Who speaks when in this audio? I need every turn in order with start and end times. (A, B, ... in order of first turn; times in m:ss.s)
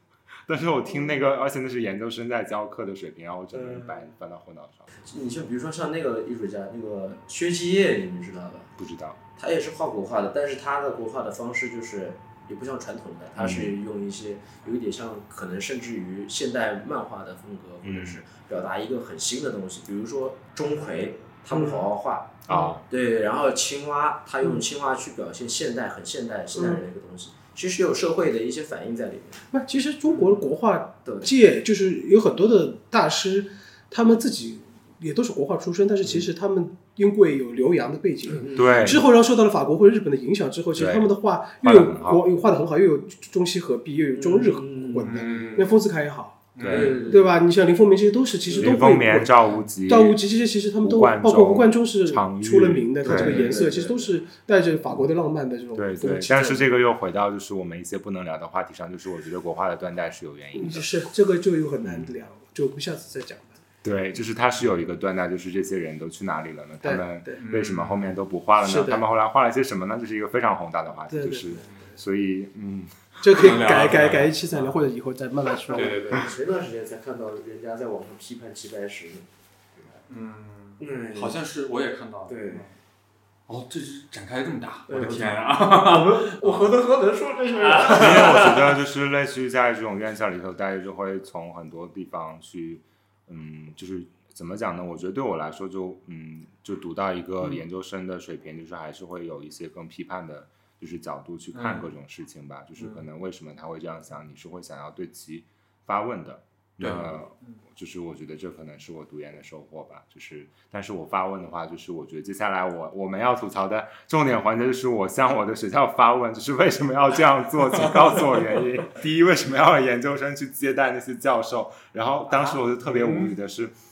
0:00.5-0:04.9 A
0:03.5-0:04.0 B
0:05.1-0:08.7 B
0:08.8-0:09.2 A
0:09.4-0:29.4 B
0:13.4-0:13.8 A
0:17.8-0:18.2 A
0:22.5-0:22.8 A
0:29.5-0:46.4 C
0:30.1-0:30.4 B
0:31.0-0:31.3 B
0:38.3-0:39.0 B
0:38.5-0:39.0 A
0:40.8-0:42.2 A
0:44.1-0:45.7 B
0:45.0-0:45.7 D
0:46.5-0:47.0 D
0:46.6-0:47.0 A
0:46.6-0:47.3 B
0:47.0-0:56.7 C
0:48.5-0:48.8 B
0:48.6-0:50.2 A
0:50.8-0:53.5 A
0:53.0-0:54.2 B
0:55.7-1:00.9 A
1:00.5-1:03.6 C
1:01.8-1:02.1 A
1:03.8-1:13.0 A
1:06.8-1:07.4 C
1:07.4-1:08.1 D
1:08.6-1:09.0 C
1:11.1-1:11.6 C
1:13.2-1:16.0 C
1:13.3-1:14.8 D
1:15.7-1:16.3 D
1:15.7-1:19.3 B
1:20.1-1:22.7 D
1:20.8-1:21.4 B
1:22.3-1:22.6 B
1:23.5-1:26.8 D
1:24.9-1:28.6 B
1:27.6-1:28.5 D
1:27.9-2:03.7 A
1:41.5-1:41.9 D
1:46.8-1:47.2 D
2:02.3-2:02.6 D